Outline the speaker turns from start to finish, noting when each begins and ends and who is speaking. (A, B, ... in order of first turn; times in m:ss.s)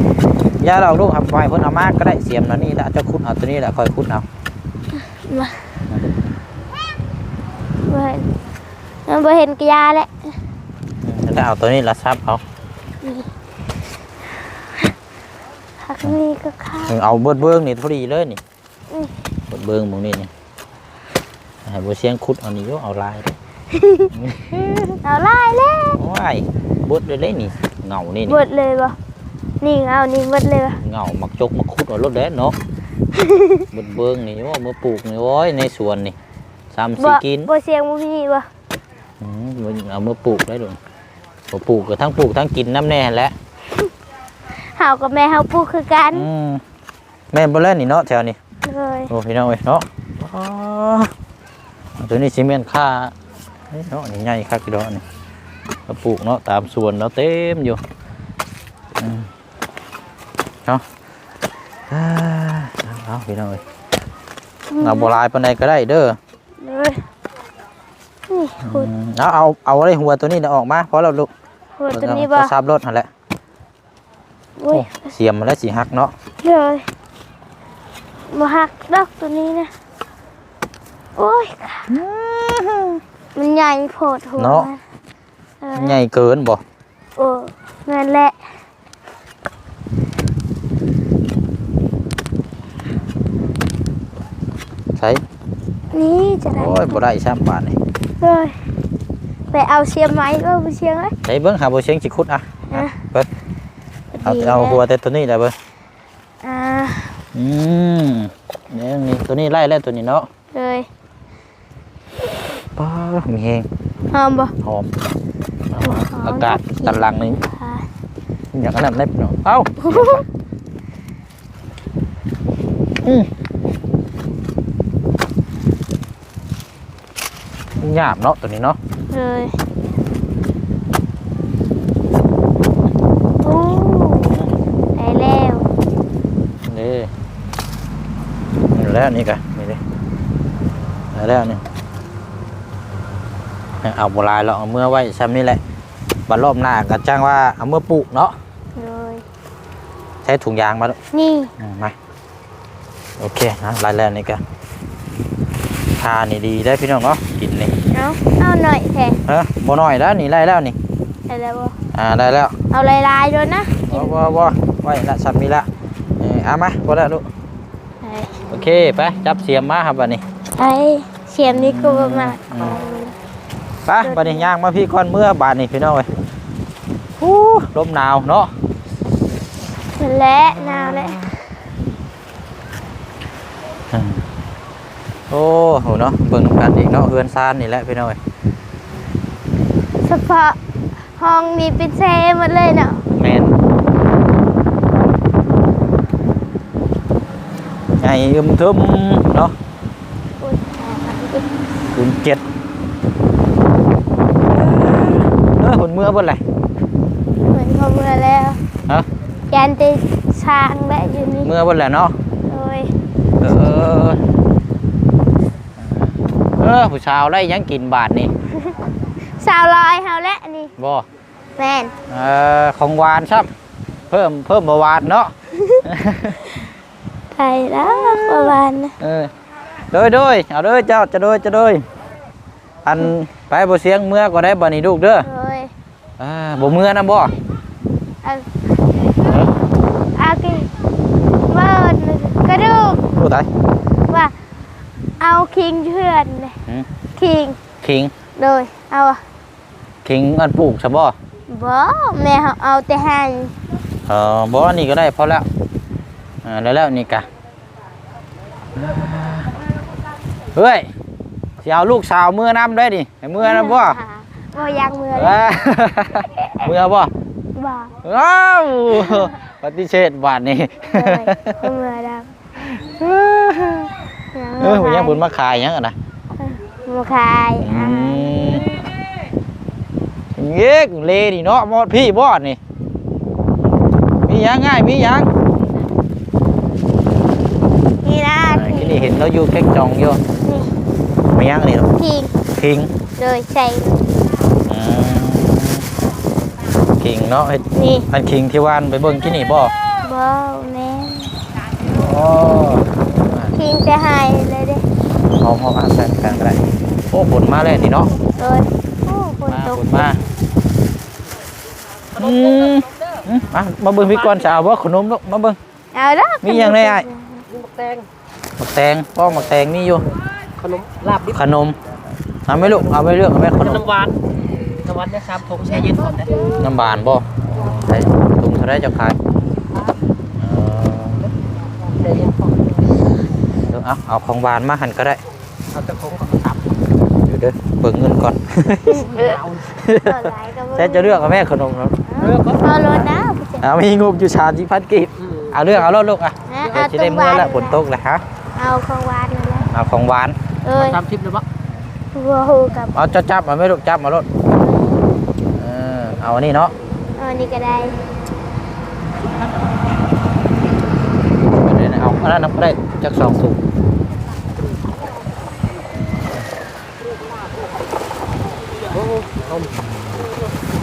0:00.6-0:04.2 A
0:05.2-0:05.6 B
0:07.9-0:08.2 B
0:09.1-0:10.1 B
0:11.0-0:12.4 A
0:13.0-0:13.3 B
0:15.8-0:16.9 B
0:16.9-0:18.4 A
0:19.5-0:20.3 A
0:21.6-0:23.3 A
0:23.7-0:24.1 B
0:24.1-0:25.0 A
0:25.0-0:26.0 B
0:26.0-0:28.4 A
0:28.3-0:29.0 B
0:29.6-0:30.8 B
0:30.8-0:32.6 A
0:33.1-0:33.6 B
0:33.7-0:36.2 A
0:36.7-0:37.5 A
0:37.0-0:38.5 B
0:39.2-0:40.8 A
0:41.5-0:43.3 A
0:44.6-0:46.3 B
0:46.1-0:46.6 A
0:47.3-0:48.4 A
0:48.6-0:49.1 B
0:49.1-0:51.1 A
0:52.0-0:53.1 A
0:53.7-0:55.0 A
0:55.9-0:57.8 A
0:59.0-0:59.3 A
1:01.9-1:03.6 A
1:04.7-1:05.1 B
1:04.8-1:06.2 A
1:06.6-1:07.0 B
1:08.3-1:08.9 B
1:08.6-1:11.3 A
1:11.8-1:12.5 B
1:11.9-1:13.1 A
1:14.6-1:15.1 B
1:14.7-1:16.1 A
1:16.4-1:16.9 B
1:18.3-1:19.7 B
1:21.2-1:21.9 B
1:21.9-1:23.0 A
1:23.4-1:24.8 B
1:24.4-1:24.7 A
1:25.6-1:26.0 B
1:25.7-1:26.6 A
1:27.2-1:28.4 B
1:35.0-1:35.2 A
1:35.9-1:37.0 B
1:36.6-1:37.8 A
1:38.2-1:38.6 B
1:39.5-1:41.1 B
1:41.2-1:43.3 A
1:44.1-1:44.8 B
1:44.2-1:45.5 A
1:46.4-1:47.2 B
1:47.3-1:50.3 A
1:50.5-1:50.9 B
1:52.8-1:53.7 A
1:54.1-1:54.5 B
1:54.6-1:54.9 A
1:55.7-1:57.4 A
1:55.8-1:57.8 B
1:58.5-2:00.2 A
1:59.8-2:00.2 B
2:03.0-2:03.3 A
2:07.8-2:08.8 A
2:09.1-2:09.5 B
2:13.4-2:14.4 B
2:15.0-2:15.6 B
2:16.6-2:17.1 A
2:18.7-2:19.8 A
2:21.1-2:21.6 A
2:23.8-2:25.6 A
2:26.3-2:28.3 A
2:28.8-2:29.2 B
2:30.2-2:31.0 A
2:31.1-2:31.5 B
2:31.6-2:31.9 A
2:33.2-2:34.4 A
2:36.0-2:37.7 A
2:37.9-2:39.2 B
2:39.3-2:40.8 A
2:41.3-2:41.8 B
2:41.9-2:42.5 A
2:42.7-2:44.2 B
2:43.9-2:45.7 A
2:46.2-2:47.2 A
2:48.0-2:48.4 B
2:48.5-2:50.2 A
2:50.6-2:53.1 B
2:51.4-2:52.8 A
2:53.8-2:56.1 A
2:54.0-2:54.5 B
2:57.2-2:58.5 A
3:00.0-3:01.2 B
3:00.5-3:01.3 A
3:03.9-3:04.2 A
3:05.3-3:08.2 A
3:10.0-3:10.6 B
3:11.2-3:13.0 B
3:13.2-3:13.6 A
3:18.0-3:19.5 A
3:20.4-3:21.4 B
3:21.9-3:22.4 A
3:24.5-3:26.4 A
3:27.5-3:28.6 B
3:29.5-3:31.5 B
3:31.4-3:32.2 A
3:32.5-3:32.9 B
3:33.4-3:34.2 A
3:35.8-3:38.3 A
3:39.4-3:40.7 B
3:40.8-3:41.0 A
3:41.6-3:41.9 B
3:42.1-3:43.5 A
3:44.1-3:45.3 A
3:45.5-3:45.8 B
3:45.8-3:46.4 A
3:47.3-3:48.9 B
3:48.0-3:49.3 A
3:49.9-3:51.8 A
3:52.8-3:55.3 A
3:55.2-3:55.7 B
3:56.2-3:57.3 A
4:00.2-4:00.7 B
4:01.5-4:03.0 B
4:03.2-4:03.5 A
4:05.2-4:06.6 B
4:07.2-4:07.6 B
4:07.8-4:08.1 A
4:08.4-4:09.2 B
4:10.0-4:11.1 A
4:11.5-4:13.5 B
4:14.1-4:15.4 A
4:16.4-4:17.3 A
4:18.7-4:19.5 A
4:20.5-4:20.9 A
4:21.6-4:24.0 A
4:23.4-4:25.4 B
4:25.1-4:27.1 A
4:27.6-4:27.9 B
4:28.0-4:31.6 A
4:29.0-4:29.3 B
4:30.9-4:32.3 B
4:32.6-4:33.9 A
4:34.3-4:35.2 B
4:34.6-4:36.0 A
4:36.4-4:38.8 B
4:37.6-4:38.6 A
4:40.3-4:42.6 A
4:44.2-4:45.3 A
4:48.0-4:49.1 B
4:48.5-4:50.2 A
4:50.4-4:50.7 B
4:51.3-4:51.9 A
4:52.0-4:52.3 B
4:52.6-4:52.9 A
4:53.2-4:54.0 B
4:54.6-4:55.8 A
4:57.0-4:59.7 A
4:57.7-4:58.1 B
5:00.0-5:01.3 B
5:01.8-5:03.6 A
5:03.5-5:04.8 B
5:05.4-5:08.1 A
5:08.4-5:10.1 B
5:09.5-5:10.2 A
5:12.2-5:15.6 A
5:15.9-5:17.4 B
5:16.4-5:17.1 A
5:17.5-5:18.0 C
5:18.6-5:20.0 A
5:20.6-5:21.4 C
5:21.3-5:21.8 A
5:22.4-5:23.9 A
5:22.5-5:22.9 C
5:23.6-5:26.5 C
5:26.6-5:29.2 A
5:30.4-5:31.3 A
5:31.9-5:32.5 C
5:33.7-5:35.2 A
5:35.7-5:36.7 C
5:37.2-5:39.1 A
5:38.9-5:39.4 B
5:39.1-5:39.6 C
5:39.7-5:43.1 A
5:40.0-5:41.4 B
5:42.1-5:43.6 B
5:43.6-5:48.2 A
5:46.5-5:47.8 B
5:48.6-5:49.7 B
5:49.7-5:50.4 A
5:50.6-5:51.0 B
5:50.8-5:51.4 C
5:52.1-5:53.0 B
5:52.9-5:54.2 A
5:55.6-5:56.7 A
5:57.2-5:58.0 B
6:01.4-6:03.6 A
6:09.0-6:09.7 C
6:09.7-6:10.3 A